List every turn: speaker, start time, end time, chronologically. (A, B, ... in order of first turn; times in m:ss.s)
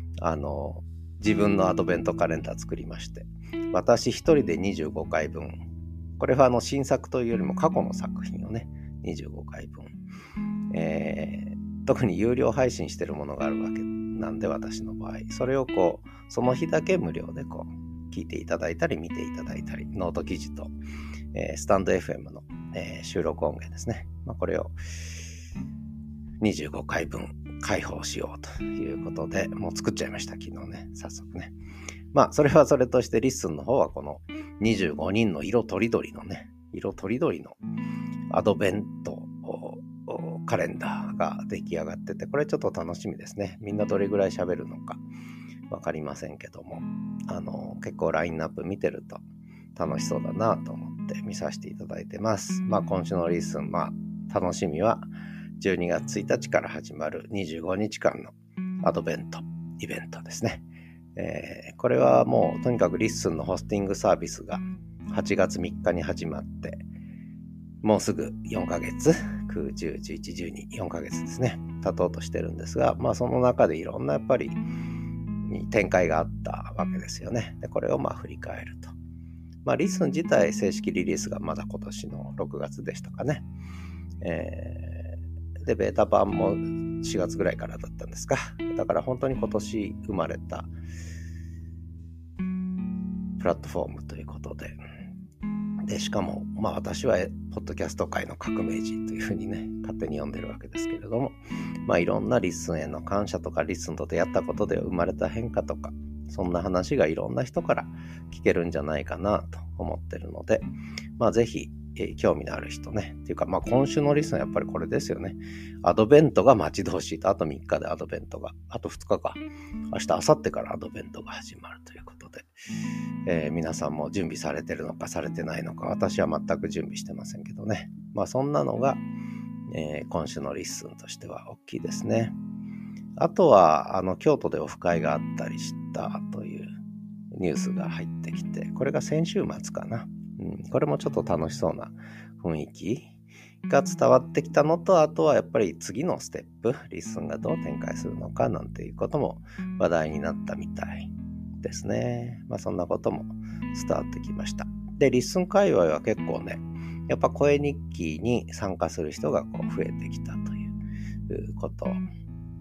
0:00.2-0:05.6 A
0:06.2-0:10.0 A
0:10.7-0:20.7 A
0:21.3-0:24.8 A
0:26.4-0:31.6 A
0:32.1-0:37.6 A
0:38.3-0:45.0 A
0:45.7-0:49.2 A
0:49.8-0:55.1 A
0:55.6-1:06.8 A
1:07.8-1:14.6 A
1:15.4-1:18.9 A
1:19.6-1:23.5 A
1:24.2-1:30.7 A
1:33.4-1:34.8 A
1:35.9-1:50.7 A
1:51.2-2:02.5 A
2:03.3-2:09.0 A
2:09.7-2:12.4 A
2:13.2-2:16.8 A
2:17.3-2:23.1 A
2:23.7-2:40.8 A
2:41.3-2:42.0 A